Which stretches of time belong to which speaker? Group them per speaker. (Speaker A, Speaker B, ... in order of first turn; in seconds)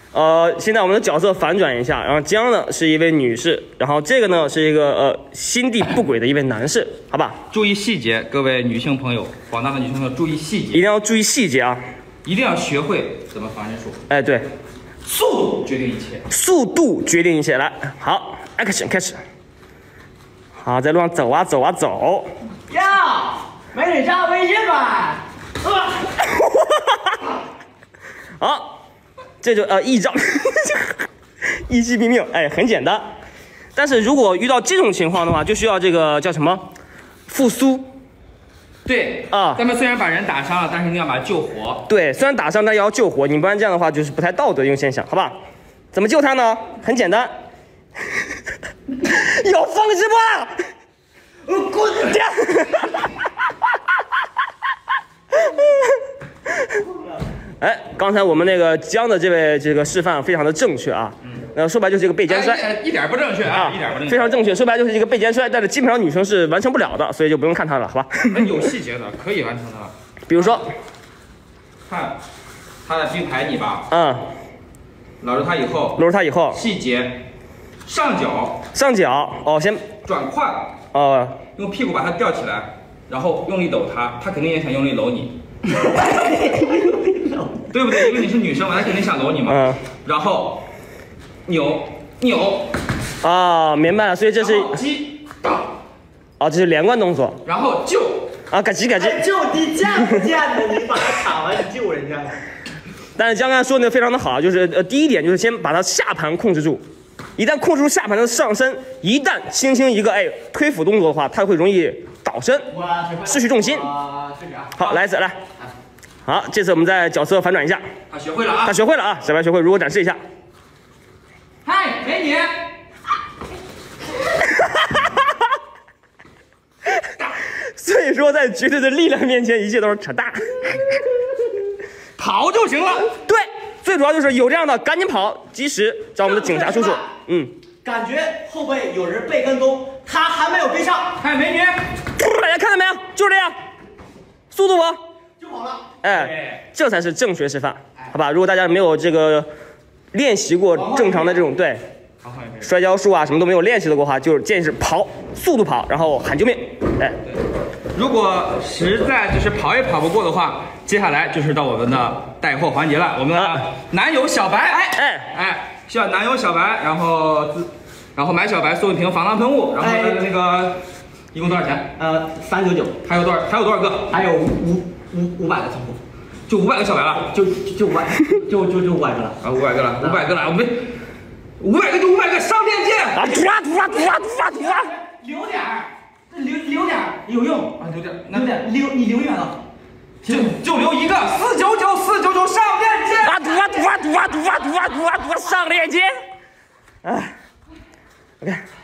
Speaker A: 0.1-7.4, 10.7-11.8, 14.1-14.5, 16.3-19.2, 20.6-22.3, 26.2-27.2, 28.4-28.8, 29.4-30.9, 31.7-33.1, 33.7-36.7, 37.3-37.9, 39.3-39.6, 41.9-45.4, 45.9-47.3, 49.0-50.6, 52.1-53.1, 55.4-56.0, 57.6-62.6, 63.5-68.6, 70.3-70.7, 73.9-74.3, 76.0-76.6, 78.7-79.9, 80.9-81.4, 89.5-89.8, 93.2-94.8, 96.4-97.4, 98.5-99.2, 100.1-100.3, 103.2-106.8, 107.4-112.7, 113.2-113.9, 114.8-115.4, 116.2-117.8, 118.6-120.2, 127.5-130.8, 133.2-137.5, 142.2-143.5, 144.5-145.0, 146.0-149.5, 150.1-151.8, 152.6-157.2, 163.3-163.7, 164.9-165.3, 183.1-184.9, 193.2-196.1, 197.0-197.3
Speaker B: 7.5-10.9, 12.2-14.0, 15.0-16.3, 38.8-41.9, 62.2-64.4, 68.3-70.5, 71.9-72.2, 72.8-73.9, 75.2-77.2, 77.8-78.7, 80.0-80.8, 81.5-85.4, 87.7-90.6, 91.5-92.7, 94.4-95.7, 97.4-98.4, 118.1-118.8, 121.6-122.5, 132.2-133.2, 141.2-142.0, 146.2-146.6, 152.2-152.7, 157.9-170.8, 171.3-172.0, 173.0-174.2, 176.5-177.3, 179.4-181.0, 181.6-183.3, 187.8-188.7, 190.2-193.5
Speaker C: 22.7-26.0, 51.5-52.2, 85.7-87.5, 99.0-102.4, 112.7-115.0, 136.3-137.0, 137.8-141.2, 145.4-146.0, 150.7-151.4, 169.8-170.2, 172.0-172.9, 174.1-176.0, 177.2-179.3, 184.7-187.7, 188.3-189.6